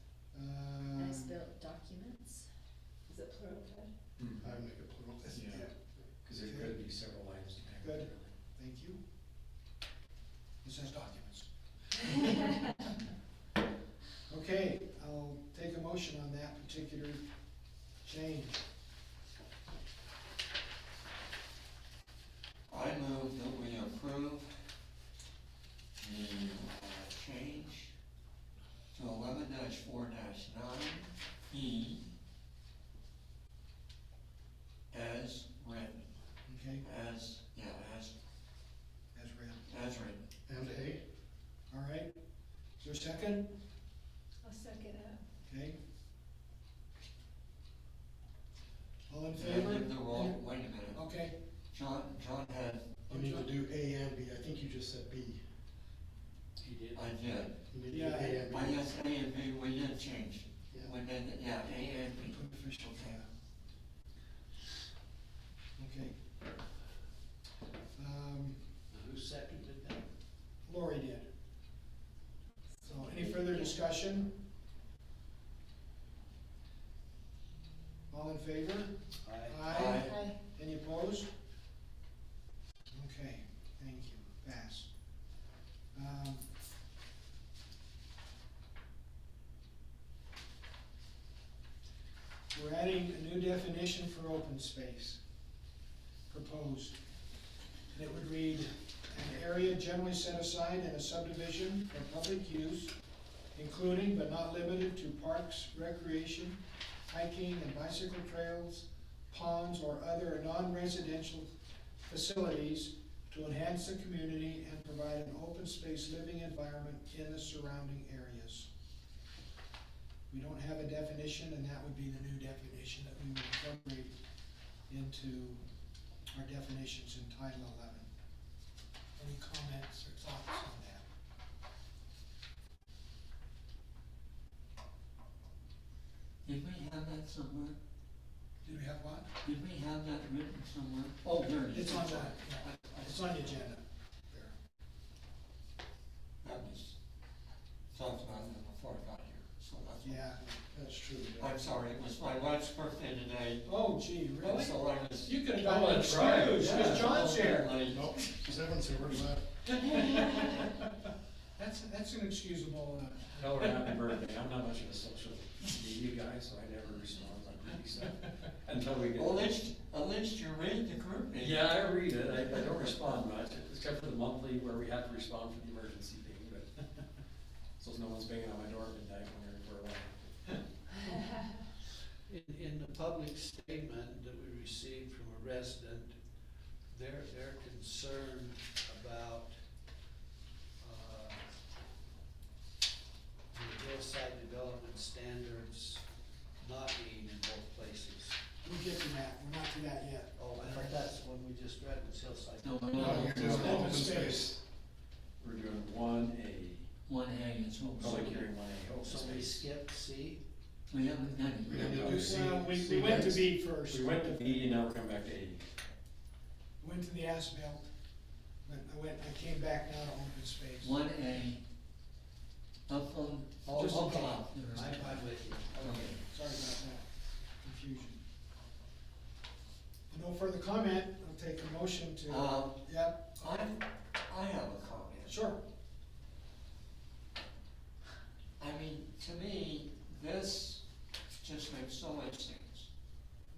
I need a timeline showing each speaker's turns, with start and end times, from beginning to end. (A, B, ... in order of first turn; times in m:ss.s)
0:00.3-0:01.4 A
0:01.0-0:02.5 B
0:03.1-0:03.9 B
0:04.2-0:04.4 C
0:04.4-0:05.7 D
0:05.3-0:05.6 C
0:06.2-0:08.3 C
0:06.4-0:06.7 A
0:07.8-0:09.0 A
0:10.6-0:12.5 A
0:14.3-0:17.2 A
0:18.0-0:18.6 A
0:22.7-0:24.5 E
0:26.0-0:27.9 E
0:28.9-0:32.1 E
0:34.9-0:36.0 E
0:36.5-0:36.8 A
0:36.8-0:38.1 E
0:39.1-0:39.6 A
0:39.7-0:40.2 E
0:40.5-0:41.0 D
0:41.7-0:42.1 A
0:42.8-0:43.5 A
0:44.4-0:45.2 B
0:45.4-0:45.8 A
0:49.1-0:50.4 A
0:49.3-0:51.0 E
0:50.9-0:51.4 A
0:51.7-0:53.0 E
0:53.1-0:55.4 D
0:53.1-0:53.5 A
0:56.6-0:57.1 F
0:56.9-0:57.6 E
0:57.7-0:58.8 D
0:57.9-0:58.5 A
0:58.5-1:03.2 E
1:02.2-1:03.2 A
1:05.8-1:06.1 A
1:08.0-1:08.6 A
1:08.9-1:10.1 F
1:10.6-1:11.3 A
1:12.8-1:13.8 B
1:12.8-1:14.3 A
1:18.1-1:18.9 A
1:19.2-1:19.6 F
1:19.4-1:21.3 A
1:19.7-1:20.2 E
1:19.8-1:20.4 B
1:22.9-1:24.9 A
1:25.9-1:26.5 A
1:32.5-1:35.2 A
1:36.3-1:37.0 A
1:37.9-1:42.9 A
1:43.5-1:46.6 A
1:47.1-1:51.5 A
1:52.0-1:58.7 A
2:00.3-2:04.1 A
2:04.9-2:05.6 A
2:06.3-2:08.1 A
2:09.2-2:11.0 A
2:16.4-2:17.8 E
2:18.6-2:19.3 A
2:19.4-2:23.6 E
2:21.7-2:24.5 A
2:26.4-2:26.9 E
2:27.9-2:30.3 E
2:30.0-2:30.6 A
2:30.7-2:31.6 D
2:31.4-2:33.7 E
2:33.6-2:37.8 A
2:34.4-2:35.4 E
2:35.6-2:37.2 C
2:36.3-2:39.2 E
2:37.9-2:39.4 D
2:39.6-2:40.9 A
2:41.6-2:43.8 A
2:43.3-2:49.5 C
2:49.2-2:51.8 E
2:51.4-2:56.8 C
2:57.8-3:00.6 C
3:02.2-3:06.2 F
3:06.9-3:09.5 F
3:10.8-3:11.4 F
3:13.5-3:16.0 F
3:16.6-3:18.4 F
3:18.6-3:20.9 A
3:20.4-3:23.7 F
3:22.6-3:24.0 E
3:22.9-3:24.5 D
3:23.4-3:24.5 A
3:24.3-3:24.6 C
3:25.4-3:26.9 C
3:27.1-3:28.4 E
3:27.9-3:29.6 C
3:28.1-3:28.4 F
3:29.0-3:30.4 F
3:30.9-3:32.4 E
3:31.6-3:33.5 D
3:32.0-3:34.7 A
3:33.9-3:35.6 C
3:36.8-3:37.9 A
3:38.6-3:41.0 A
3:40.8-3:41.6 E
3:42.9-3:46.2 E
3:43.7-3:46.2 F
3:46.2-3:47.1 A
3:47.6-3:48.2 A
3:50.1-3:53.7 A
3:52.3-3:52.8 E
3:53.4-3:55.4 E
3:55.2-3:55.6 A
3:58.6-4:00.8 E
4:01.4-4:02.9 E